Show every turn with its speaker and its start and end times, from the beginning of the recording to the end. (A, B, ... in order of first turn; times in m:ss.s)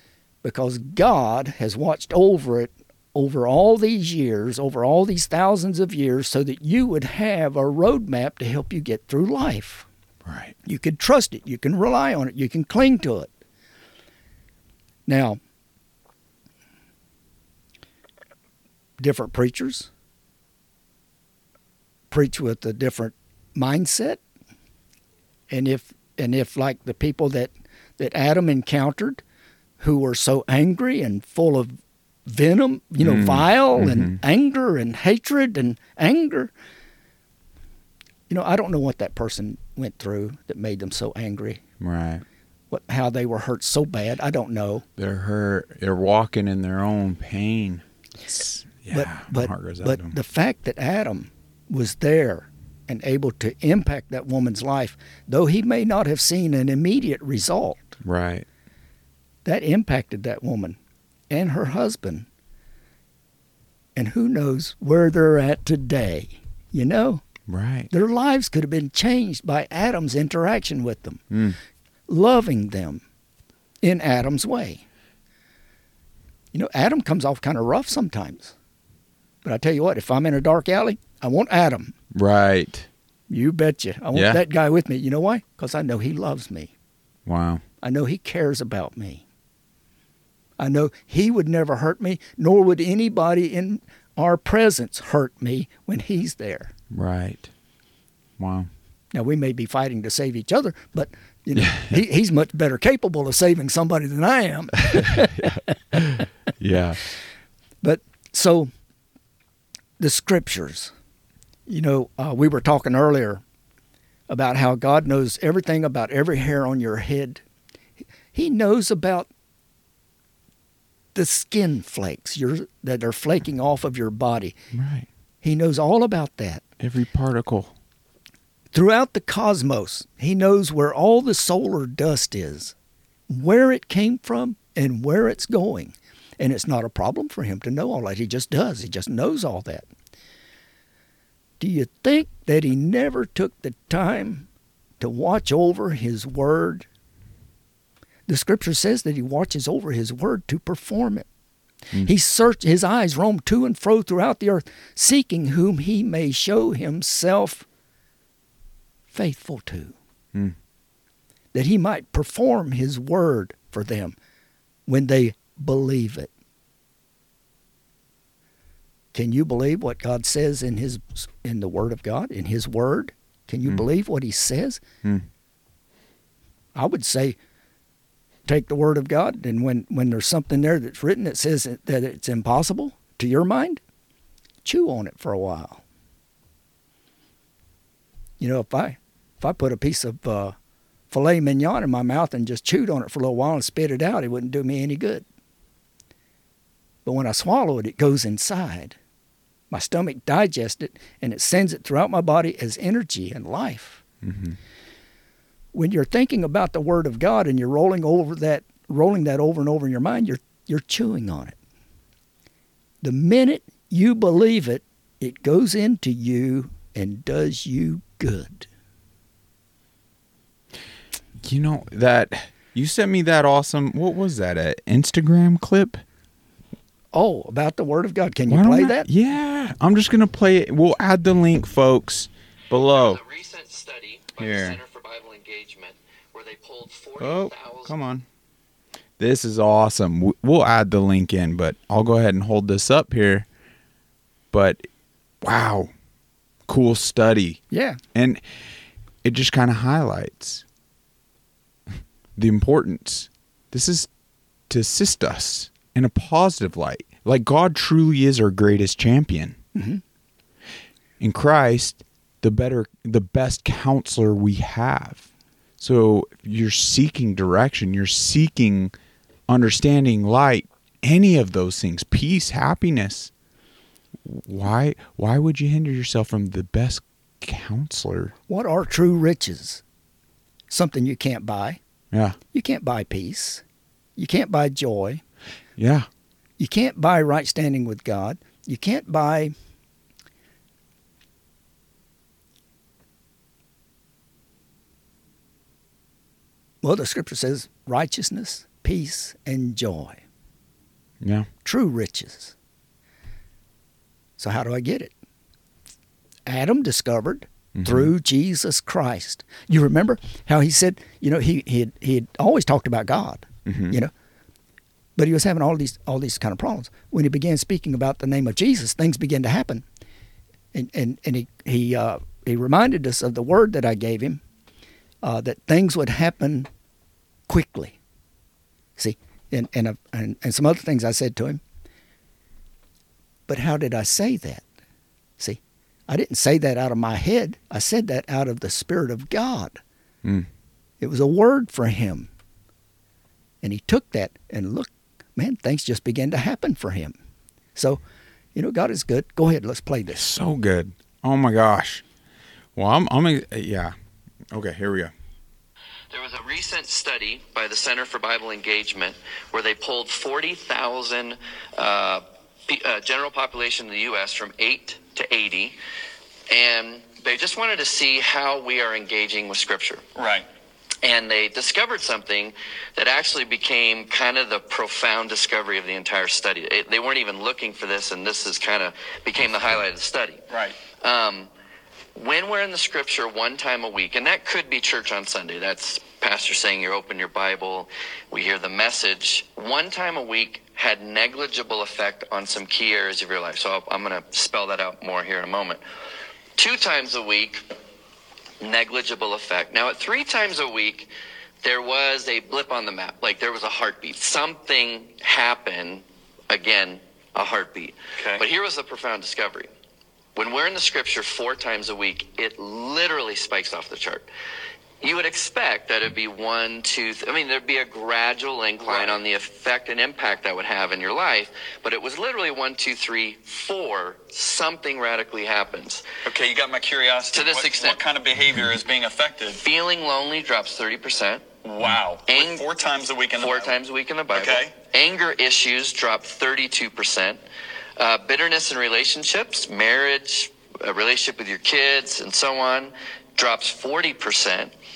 0:00.4-0:09.9 A
0:10.2-0:10.5 B
0:10.6-0:13.3 A
0:15.1-0:15.4 A
0:19.0-0:19.9 A
0:22.1-0:24.2 A
0:25.5-0:29.2 A
0:29.8-0:36.5 A
0:33.0-0:34.2 B
0:38.3-0:41.6 A
0:41.8-0:42.2 B
0:42.7-0:44.8 A
0:45.0-0:50.1 B
0:48.9-0:58.0 A
0:58.0-0:58.4 B
0:59.4-1:00.8 A
1:01.3-1:02.3 A
1:04.0-1:07.2 A
1:07.5-1:07.9 B
1:07.9-1:11.2 A
1:11.3-1:11.6 B
1:12.1-1:13.0 A
1:13.8-1:14.8 A
1:16.5-1:18.5 A
1:19.4-1:21.9 A
1:22.1-1:22.9 B
1:23.3-1:26.7 A
1:24.1-1:24.4 B
1:27.2-1:27.6 B
1:27.8-1:29.2 A
1:30.6-1:36.7 A
1:36.9-1:37.5 B
1:38.4-1:38.7 B
1:39.1-1:45.5 A
1:41.6-1:42.0 B
1:44.9-1:47.0 B
1:47.8-1:48.7 A
1:50.0-1:50.9 A
1:51.7-1:53.4 A
1:54.3-1:57.4 A
1:58.3-1:59.3 A
2:01.1-2:04.6 A
2:04.7-2:05.1 B
2:05.4-2:06.6 A
2:06.8-2:07.7 B
2:08.7-2:12.7 A
2:13.3-2:19.9 A
2:21.6-2:24.5 A
2:25.0-2:26.8 A
2:28.3-2:31.3 A
2:32.0-2:37.6 A
2:39.1-2:39.9 A
2:41.5-2:44.2 A
2:44.9-2:46.3 A
2:49.1-2:54.8 A
2:56.7-2:57.4 A
2:58.4-3:03.8 A
3:04.6-3:05.8 A
3:08.4-3:10.5 A
3:11.1-3:15.2 A
3:17.0-3:19.0 A
3:19.7-3:24.0 A
3:24.2-3:24.6 B
3:25.7-3:31.6 A
3:33.0-3:38.7 A
3:41.4-3:46.0 B
3:47.1-3:49.1 A
3:48.5-3:53.2 B
3:52.7-3:57.9 C
3:54.4-3:54.8 B
3:57.2-3:58.2 B
3:59.2-4:03.4 B
4:04.5-4:04.8 B
4:05.4-4:05.9 B
4:06.7-4:07.6 B
4:07.7-4:08.0 A
4:08.1-4:08.4 B
4:09.2-4:10.6 B
4:12.4-4:14.1 B
4:14.7-4:19.6 B
4:19.7-4:20.0 A
4:21.2-4:25.2 B
4:25.8-4:28.9 B
4:29.5-4:33.3 B
4:34.2-4:38.3 B
4:38.5-4:39.8 A
4:40.7-4:41.8 A
4:42.1-4:42.4 B
4:42.5-4:43.6 A
4:44.2-4:45.2 A
4:45.8-4:46.1 B
4:46.6-4:49.5 A
4:56.8-5:00.2 A
5:01.2-5:01.5 B
5:01.6-5:02.5 A
5:04.4-5:05.1 A
5:06.4-5:14.1 A
5:07.8-5:08.1 B
5:13.6-5:14.0 B
5:15.2-5:19.8 A
5:20.7-5:24.4 A
5:25.2-5:26.7 A
5:27.5-5:28.0 A
5:29.0-5:31.6 A
5:33.5-5:34.6 A
5:35.4-5:39.8 A
5:41.0-5:42.3 A
5:43.6-5:47.2 A
5:47.8-5:48.0 A
5:48.5-5:50.3 A
5:50.1-5:52.0 B
5:52.8-5:53.9 B
5:54.5-5:55.1 B
5:56.1-6:05.8 C
6:06.5-6:10.0 C
6:10.2-6:10.4 D
6:11.0-6:20.4 C
6:20.5-6:20.8 D
6:21.0-6:21.5 C
6:22.2-6:35.8 C
6:36.6-6:37.6 C
6:38.6-6:41.1 C
6:41.6-6:49.7 C
6:48.2-6:48.4 D
6:50.4-6:54.2 C
6:55.0-7:06.0 C
6:58.8-6:59.2 D
7:06.2-7:09.6 D
7:07.3-7:08.0 C
7:09.6-7:11.4 C
7:11.6-7:13.7 D
7:12.3-7:12.6 C
7:13.3-7:17.4 C
7:14.3-7:14.7 D
7:18.0-7:24.7 C